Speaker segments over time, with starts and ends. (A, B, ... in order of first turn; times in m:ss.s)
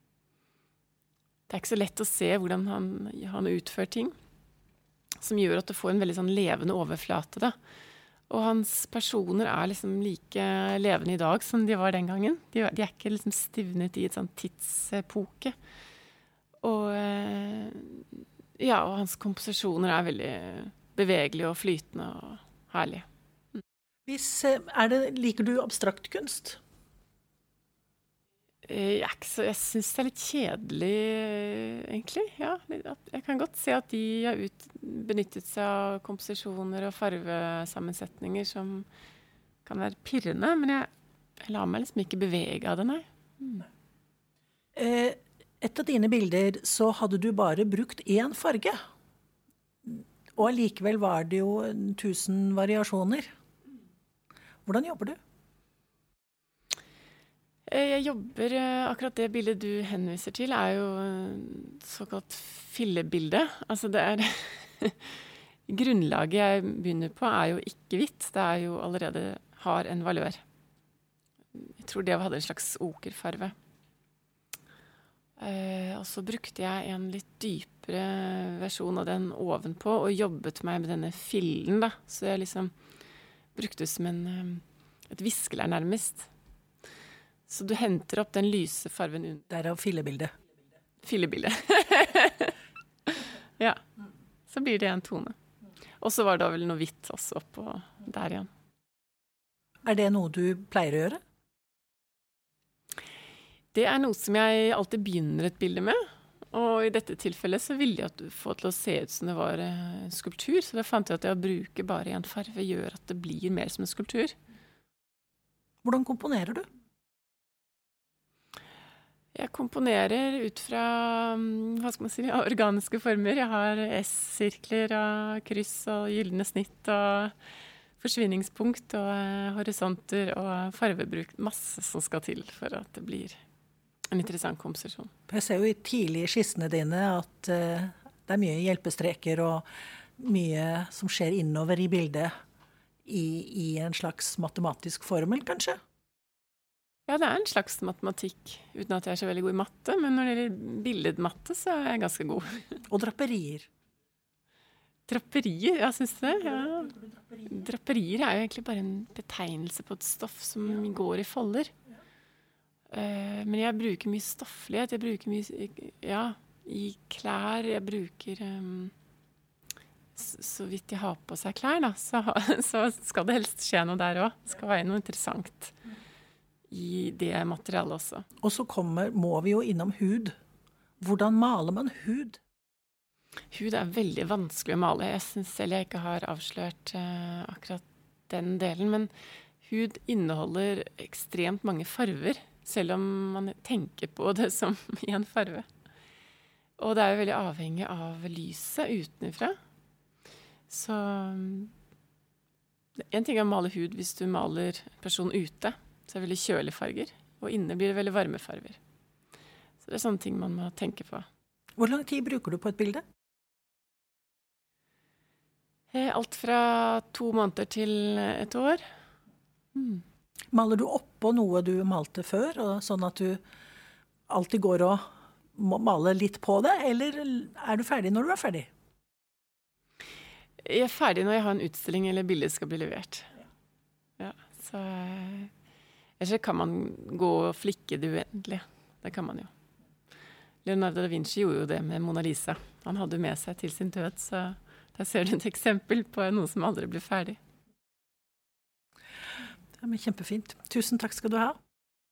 0:01.5-0:04.1 A
0:05.2-0:07.6 A
0:08.3-0:15.6 A
0:16.6-0:23.6 A
0:24.1-0:26.6 B
0:28.6-0:38.9 A
0:39.6-0:40.9 A
0:41.4-0:43.7 A
0:44.8-0:48.8 B
0:49.8-0:53.3 B
0:54.7-0:55.2 B
0:57.7-1:10.4 A
1:11.5-1:13.6 A
1:15.4-1:22.7 A
1:23.6-1:26.3 A
1:27.5-1:29.5 A
1:29.5-1:30.3 B
1:31.0-1:33.8 A
1:34.5-1:35.4 A
1:36.0-1:38.5 A
1:39.8-1:41.2 B
1:43.7-1:54.4 A
1:55.8-1:56.6 B
1:59.3-2:07.3 A
2:08.0-2:13.4 A
2:14.1-2:15.1 A
2:15.3-2:19.6 B
2:20.2-2:22.3 B
2:23.1-2:25.8 B
2:27.1-2:32.8 A
2:32.9-2:33.7 B
2:35.1-2:41.7 A
2:42.9-2:48.9 A
2:50.2-2:55.8 A
2:56.7-2:58.3 A
2:58.4-3:00.3 B
3:01.0-3:02.4 B
3:03.5-3:09.1 A
3:09.6-3:15.7 A
3:16.8-3:19.6 A
3:20.7-3:21.7 A
3:23.1-3:28.8 A
3:29.8-3:31.3 A
3:31.8-3:33.0 B
3:35.9-3:38.8 A
3:39.8-3:40.0 A
3:40.5-3:43.4 B
3:44.3-3:48.7 B
3:50.6-3:53.3 A
3:54.2-3:55.5 A
3:56.2-3:59.5 A
4:00.6-4:07.4 A
4:09.8-4:11.6 B